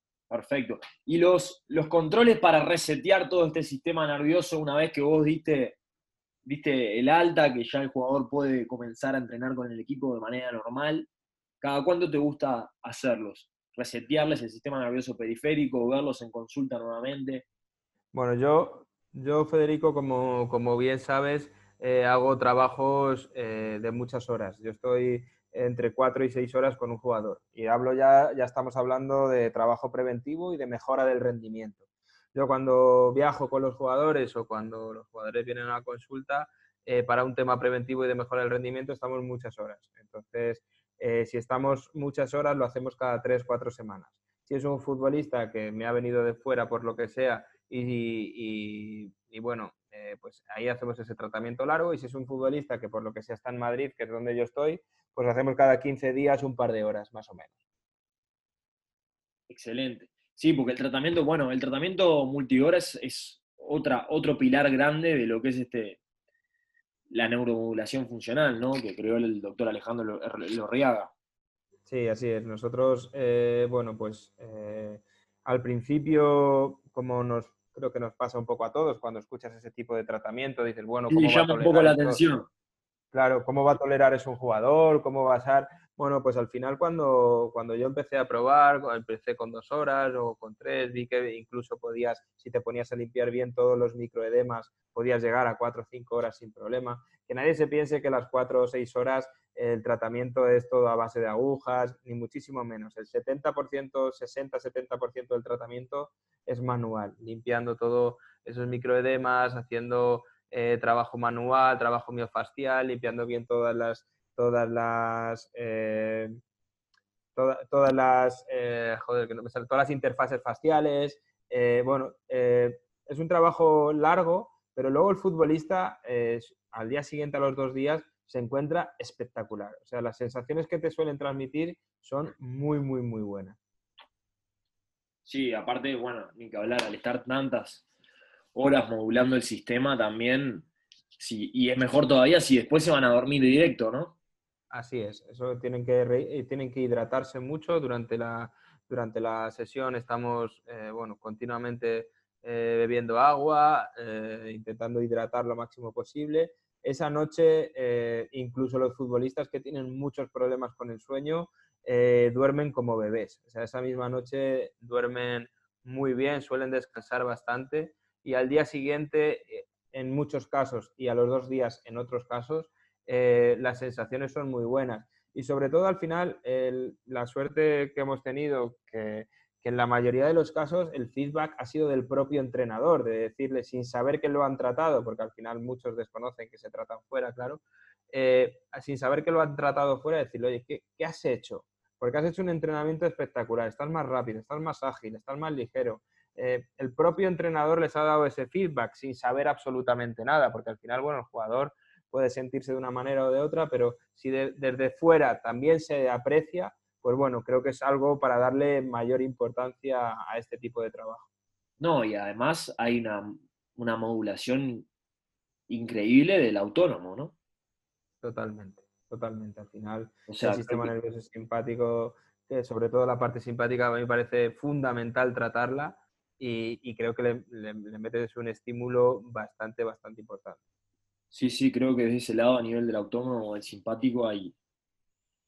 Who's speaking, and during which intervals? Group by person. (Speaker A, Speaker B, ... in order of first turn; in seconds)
Speaker A: 0.3-5.8, 6.4-11.1, 11.6-17.4, 59.5-66.0, 67.1-71.1, 81.1-82.5, 135.2-137.8, 138.5-140.7, 141.2-144.1, 211.8-214.9, 215.7-217.3, 220.3-220.9, 231.3-234.5
Speaker B: 18.1-31.8, 32.3-57.5, 71.9-82.2, 83.1-116.4, 117.3-133.6, 144.7-211.2, 218.2-230.6